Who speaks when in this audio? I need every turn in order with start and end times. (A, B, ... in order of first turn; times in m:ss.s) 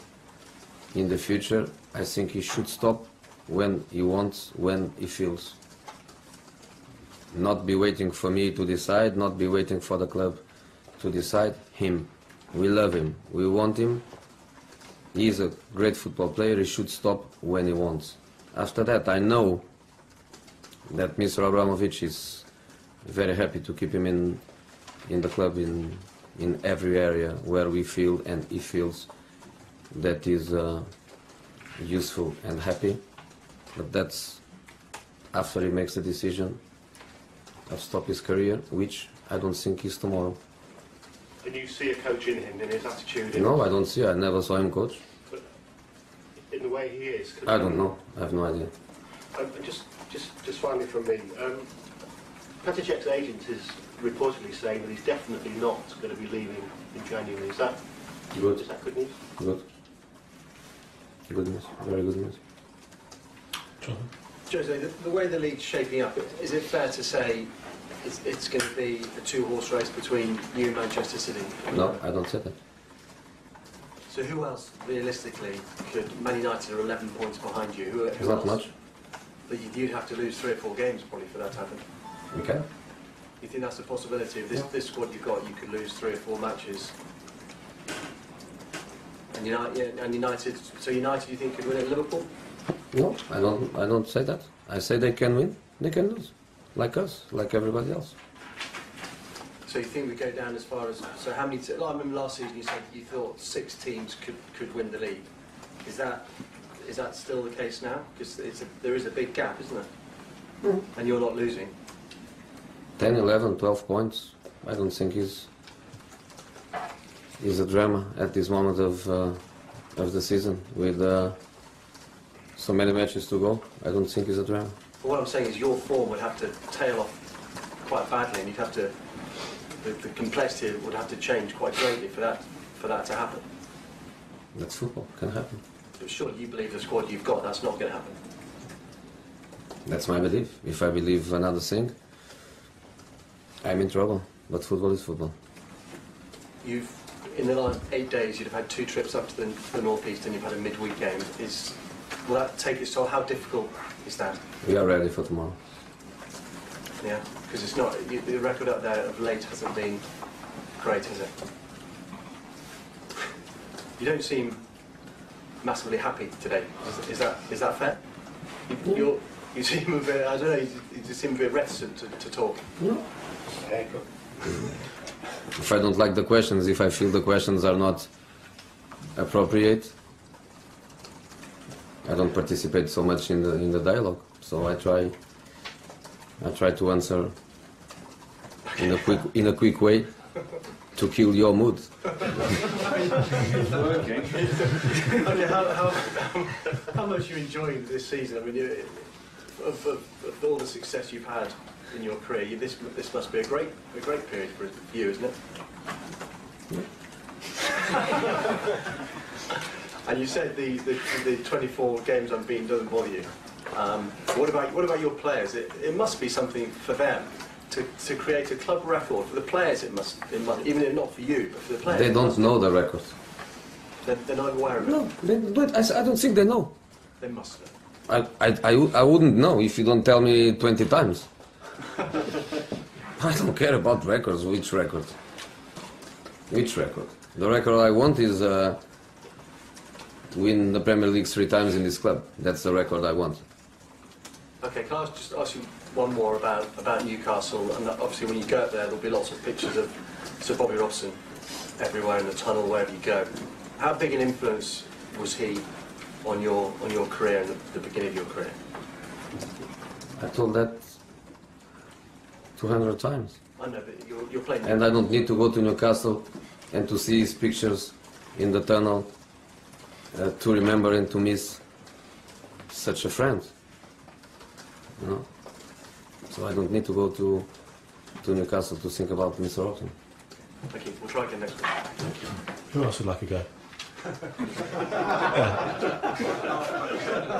0:00.9-0:05.6 A
0:07.3-0:10.4 A
0:11.0-0:14.0 A
0:15.1-0:19.6 A
0:20.9-0:22.5 A
0:23.0-0:24.4 A
0:25.0-0:29.1 A
0:29.9-0:30.9 A
0:31.8-0:33.0 A
0:33.7-0:34.4 A
0:35.3-0:36.6 A
0:37.7-0:40.4 A
0:41.4-0:43.5 B
0:43.3-0:45.0 A
0:46.5-0:47.8 B
0:47.4-0:48.7 A
0:49.3-0:51.7 B
0:52.6-0:57.8 B
0:58.3-0:58.6 A
0:58.5-0:59.1 B
0:59.3-0:59.6 A
1:01.3-1:02.4 A
1:03.8-1:04.1 C
1:04.5-1:12.0 D
1:11.7-1:12.6 A
1:14.1-1:18.7 D
1:18.2-1:18.7 A
1:19.5-1:21.8 D
1:22.3-1:22.6 A
1:23.4-1:26.9 D
1:29.3-1:32.3 D
1:32.9-1:38.2 A
1:39.6-1:45.3 D
1:45.8-1:49.9 D
1:50.9-1:51.7 D
1:53.0-1:55.5 A
1:57.4-1:59.4 A
1:59.9-2:01.4 A
2:02.5-2:04.7 A
2:05.0-2:07.2 D
2:07.8-2:13.4 D
2:14.5-2:15.6 A
2:16.0-2:18.2 D
2:19.8-2:21.9 A
2:23.6-2:25.3 A
2:26.6-2:34.4 D
2:34.6-2:35.6 A
2:37.0-2:40.1 D
2:40.7-2:41.3 D
2:44.0-2:44.6 D
2:45.6-2:48.0 D
2:48.6-2:52.6 D
2:52.8-2:53.0 A
2:53.5-2:54.7 B
2:55.5-2:58.1 A
2:59.1-2:59.9 A
3:02.0-3:05.1 A
3:06.4-3:07.3 A
3:08.7-3:09.1 D
3:08.8-3:10.3 A
3:10.9-3:12.5 A
3:12.5-3:25.4 D
3:13.6-3:14.5 C
3:30.0-3:42.4 D
3:41.8-3:43.1 A
3:44.0-3:45.0 D
3:44.8-3:46.7 A
3:47.2-3:47.7 D
3:48.1-3:51.3 A
3:53.2-3:55.1 A
3:56.5-3:58.8 A
4:00.3-4:03.4 A
4:04.6-4:11.2 D
4:11.8-4:15.7 D
4:16.2-4:18.6 D
4:20.2-4:20.9 A
4:22.6-4:23.4 A
4:23.6-4:24.8 D
4:24.6-4:29.1 A
4:30.1-4:31.6 A
4:32.7-4:33.5 A
4:35.0-4:35.3 A
4:36.3-4:37.5 A
4:38.2-4:39.9 A
4:40.7-4:42.0 D
4:42.2-4:43.5 C
4:45.3-4:45.8 C